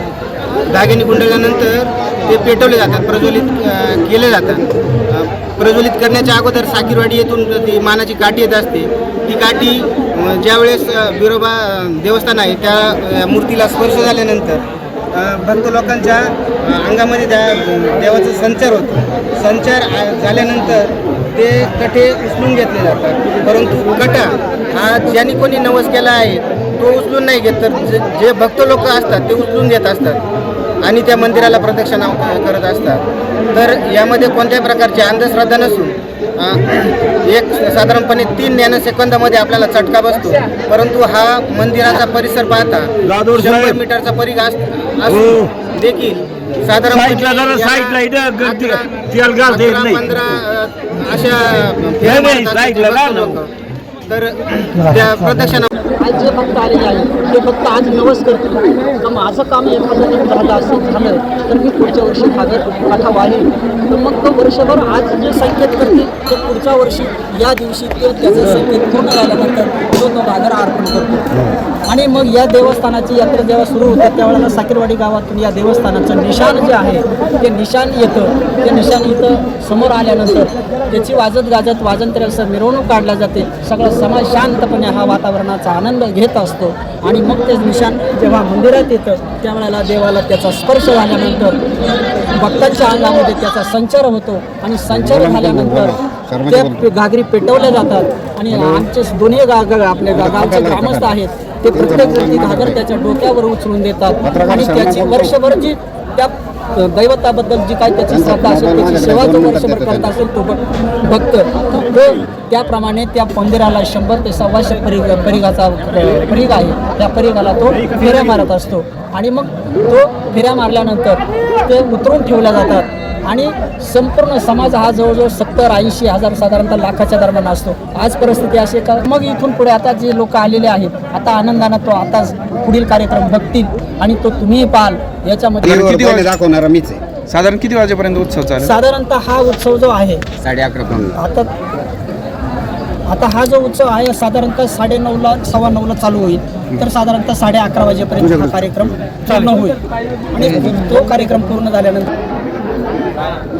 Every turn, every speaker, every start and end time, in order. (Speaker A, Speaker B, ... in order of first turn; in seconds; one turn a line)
Speaker A: 0.7-14.6
Speaker A: 15.1-30.2
Speaker A: 30.8-33.0
Speaker A: 33.5-53.5
Speaker A: 54.1-55.7
Speaker B: 56.0-71.3
Speaker B: 71.9-91.6
Speaker B: 92.3-136.0
Speaker C: 95.0-96.8
Speaker C: 100.1-101.1
Speaker C: 101.7-102.8
Speaker C: 104.2-105.3
Speaker C: 108.1-110.1
Speaker C: 135.6-137.0
Speaker D: 135.7-136.3
Speaker D: 137.3-138.7
Speaker B: 138.6-140.2
Speaker C: 140.4-141.2
Speaker B: 141.2-141.5
Speaker B: 143.1-149.8
Speaker B: 150.3-152.1
Speaker C: 150.4-150.7